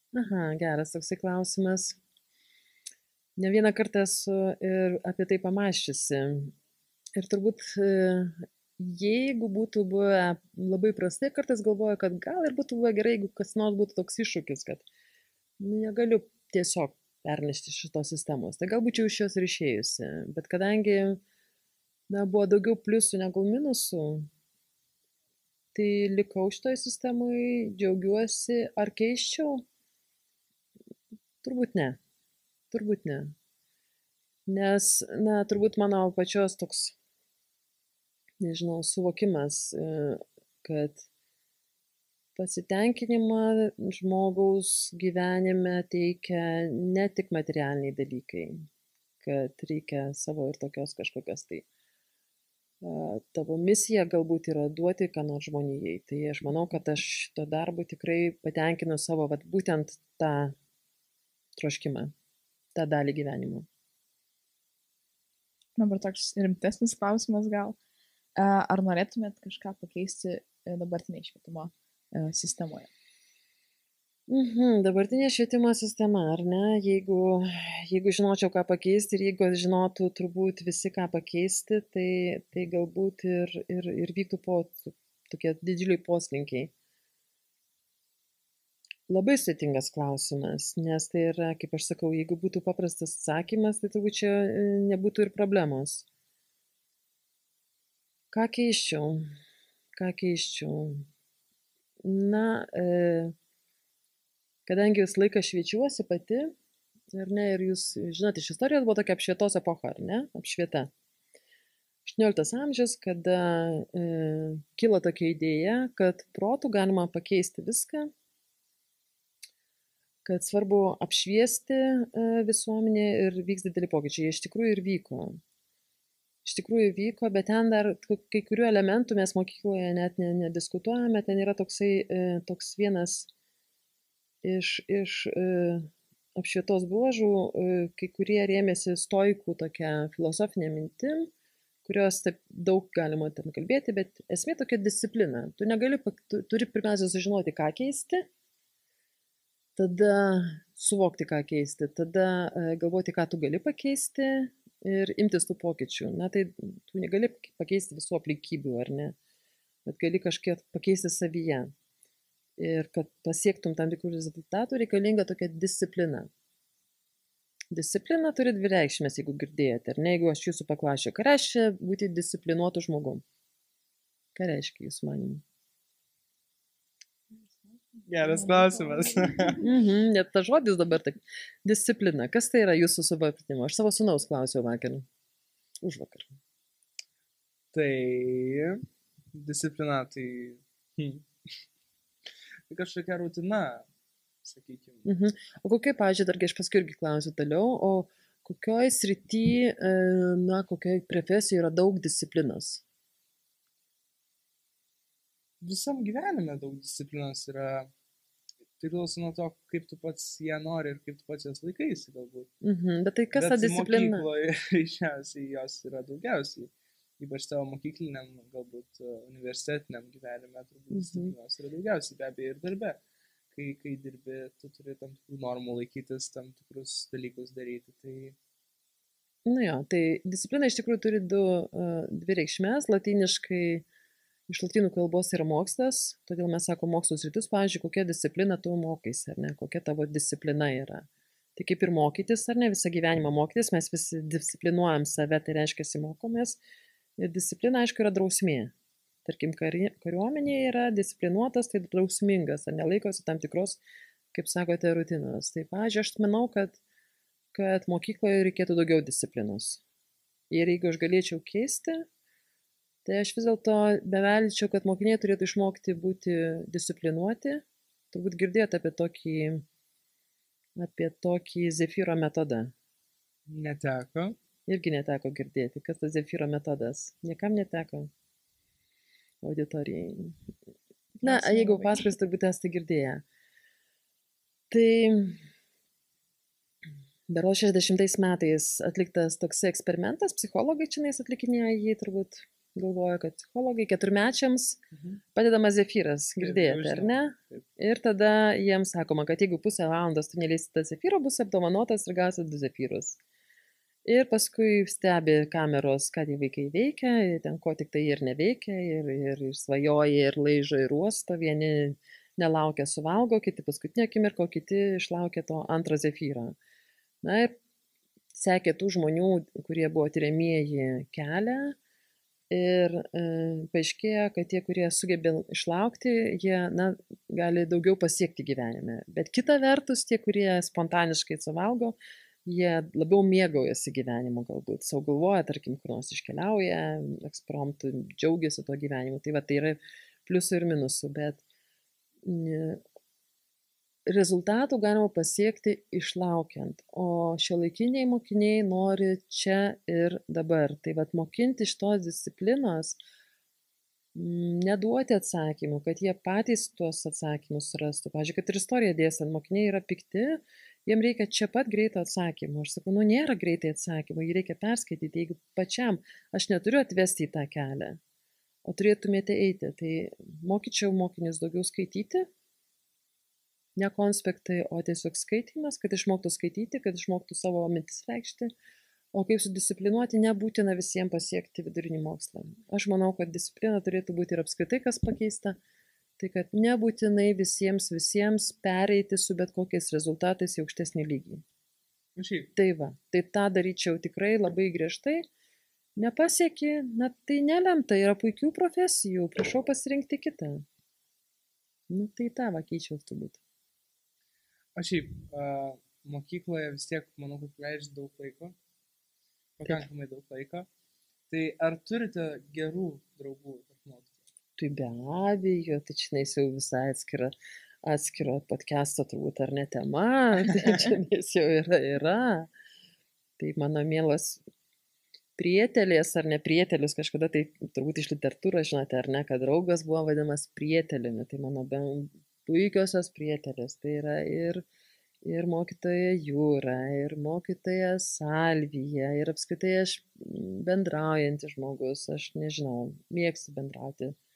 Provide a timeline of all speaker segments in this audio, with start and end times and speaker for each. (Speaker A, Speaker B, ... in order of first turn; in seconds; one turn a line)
Speaker A: 0.1-2.0
Speaker A: 3.4-6.5
Speaker A: 7.1-14.8
Speaker A: 15.6-21.2
Speaker A: 22.1-24.3
Speaker A: 25.7-29.6
Speaker A: 31.4-32.0
Speaker A: 32.7-33.3
Speaker A: 34.5-36.9
Speaker A: 38.4-41.1
Speaker A: 42.4-48.7
Speaker A: 49.2-51.6
Speaker A: 52.8-60.5
Speaker A: 61.6-62.1
Speaker A: 62.7-63.7
Speaker B: 65.8-67.8
Speaker B: 68.3-72.9
Speaker A: 74.3-86.7
Speaker A: 89.1-96.0
Speaker A: 98.3-99.3
Speaker A: 100.0-101.1
Speaker A: 102.0-103.3
Speaker A: 104.7-106.5
Speaker A: 107.1-110.9
Speaker A: 112.0-118.1
Speaker A: 120.2-125.4
Speaker A: 126.4-133.3
Speaker A: 134.4-141.3
Speaker A: 141.8-148.3
Speaker A: 149.8-159.2
Speaker A: 159.8-161.7
Speaker A: 162.6-166.3
Speaker A: 167.7-173.2
Speaker A: 174.3-175.4
Speaker B: 177.4-179.6
Speaker C: 178.1-179.6
Speaker A: 179.6-185.1
Speaker A: 185.8-186.3
Speaker C: 187.7-188.8
Speaker C: 189.3-191.2
Speaker C: 192.7-193.9
Speaker C: 194.4-195.1
Speaker A: 195.0-202.8
Speaker C: 205.6-207.9
Speaker C: 208.8-212.5
Speaker A: 212.6-214.3
Speaker C: 213.3-223.0
Speaker A: 220.9-221.3
Speaker C: 223.5-228.3
Speaker A: 229.4-233.8
Speaker A: 234.5-246.6
Speaker A: 247.2-248.7
Speaker A: 249.2-253.8
Speaker A: 254.3-256.8
Speaker A: 257.5-259.8
Speaker A: 260.5-262.1
Speaker A: 263.0-269.6
Speaker A: 270.8-272.7
Speaker C: 273.5-274.4
Speaker A: 274.6-278.1
Speaker A: 279.4-280.4
Speaker B: 281.2-282.1
Speaker A: 281.2-283.2
Speaker A: 284.7-285.4
Speaker A: 287.3-294.8
Speaker C: 294.9-295.2
Speaker A: 295.3-303.2
Speaker C: 296.4-297.6
Speaker A: 304.0-316.6
Speaker A: 317.2-317.6
Speaker A: 318.3-321.8
Speaker A: 322.5-341.4
Speaker A: 342.2-342.8
Speaker A: 344.1-353.0
Speaker A: 354.1-368.0
Speaker A: 368.6-372.3
Speaker A: 373.8-378.5
Speaker A: 379.1-385.6
Speaker A: 386.2-391.4
Speaker C: 392.1-392.5
Speaker A: 392.6-395.2
Speaker A: 396.0-400.6
Speaker A: 401.9-403.4
Speaker C: 404.8-408.6
Speaker C: 409.6-410.7
Speaker C: 411.3-414.2
Speaker A: 414.6-422.5
Speaker A: 423.4-424.4
Speaker A: 425.4-434.6
Speaker A: 435.2-444.2